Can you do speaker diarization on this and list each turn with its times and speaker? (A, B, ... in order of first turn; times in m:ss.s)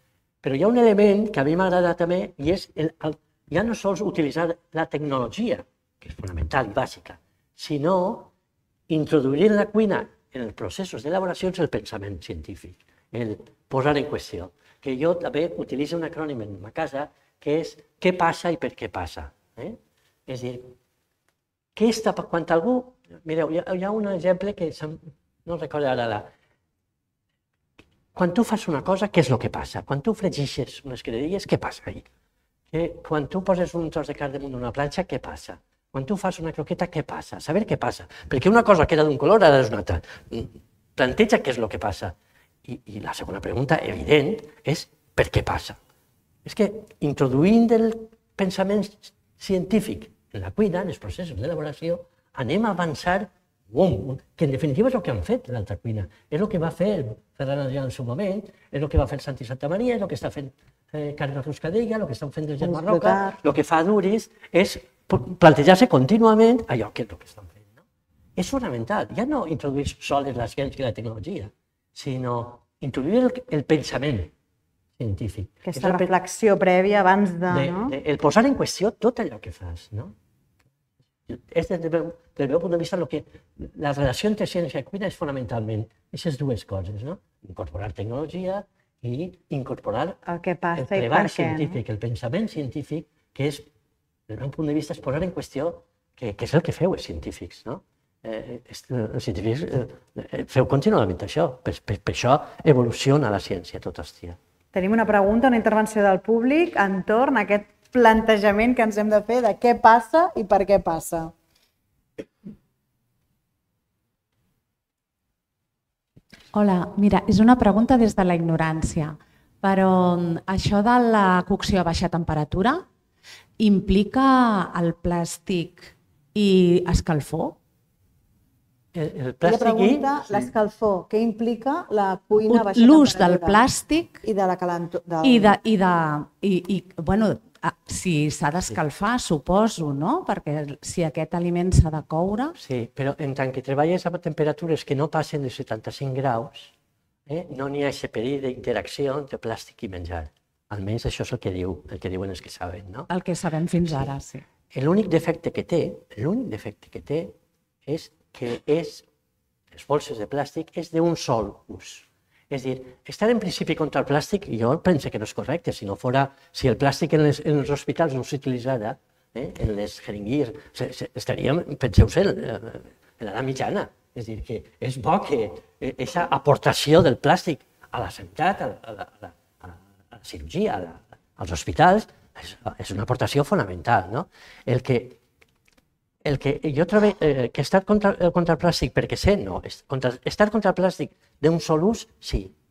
0:00.4-0:08.3 A
0:08.9-0:20.7 A
0:21.8-0:26.3 A
0:28.1-0:32.1 A
0:32.7-0:45.8 A
0:46.4-1:07.7 A
1:02.6-1:03.4 B
1:08.4-1:14.3 A
1:15.0-1:16.1 A
1:15.6-1:17.9 B
1:17.5-1:20.1 A
1:21.3-1:30.2 A
1:30.2-1:31.8 B
1:30.7-1:33.7 A
1:34.3-1:44.4 A
1:44.7-1:51.3 B
1:56.5-2:02.8 C
2:03.6-2:07.6 C
2:08.9-2:10.5 A
2:09.4-2:13.6 B
2:12.5-2:14.2 C
2:14.2-2:15.5 B
2:15.2-2:22.5 C
2:22.5-2:26.7 A
2:27.3-2:33.1 A
2:33.1-2:34.4 C
2:34.7-2:37.3 A
2:37.8-2:39.0 A
2:39.7-3:05.2 A
3:06.2-3:12.5 A